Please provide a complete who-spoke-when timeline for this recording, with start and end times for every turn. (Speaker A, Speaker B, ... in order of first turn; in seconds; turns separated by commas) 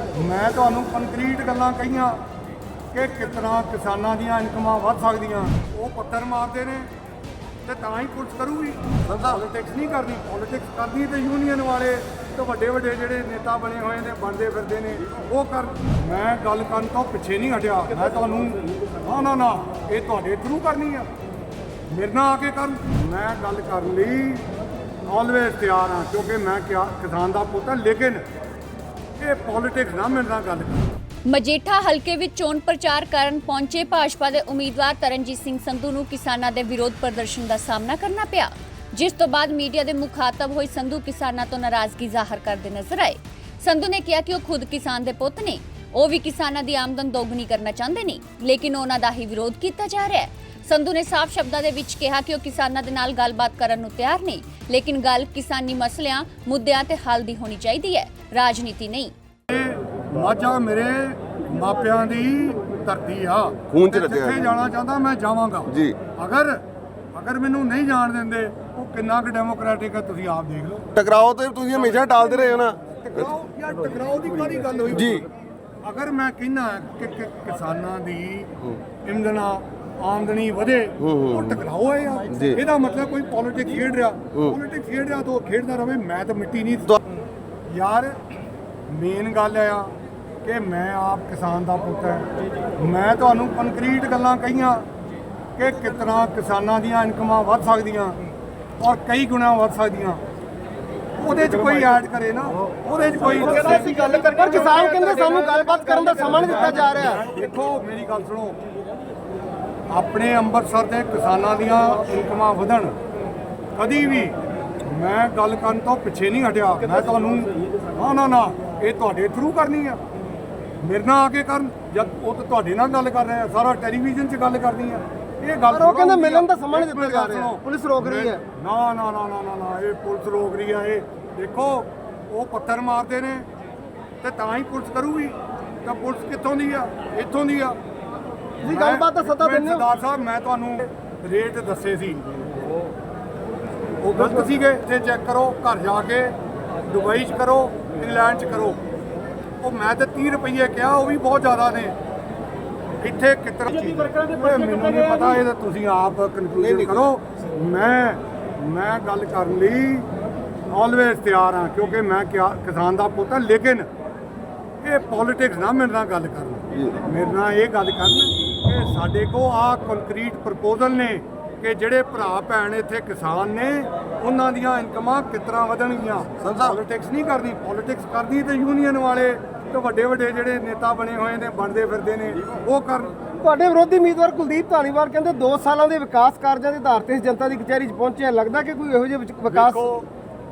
Speaker A: 0.1-2.2, Speaker A: 2.9-6.9, Speaker A: 7.6-21.1, Speaker A: 21.9-24.5, Speaker A: 25.1-28.2, Speaker A: 29.2-31.0, Speaker B: 31.3-59.1, Speaker A: 59.5-66.6, Speaker C: 63.7-64.3, Speaker A: 67.1-70.9, Speaker C: 71.0-72.8, Speaker A: 72.8-75.2, Speaker A: 75.8-87.0, Speaker A: 87.7-88.2, Speaker A: 88.9-89.9, Speaker A: 90.4-94.8, Speaker A: 95.6-98.2, Speaker A: 98.8-100.2, Speaker A: 101.2-104.0, Speaker D: 103.4-107.2, Speaker A: 106.2-108.6, Speaker A: 109.9-113.0, Speaker A: 113.8-120.0, Speaker A: 120.8-133.5, Speaker D: 125.7-128.4, Speaker A: 134.2-137.8, Speaker A: 138.6-142.2, Speaker D: 138.6-139.8, Speaker A: 144.0-146.3, Speaker A: 146.9-148.8, Speaker A: 149.6-152.0, Speaker A: 153.0-160.1, Speaker A: 160.7-163.9, Speaker A: 164.8-183.1, Speaker D: 183.4-189.8, Speaker A: 189.5-190.1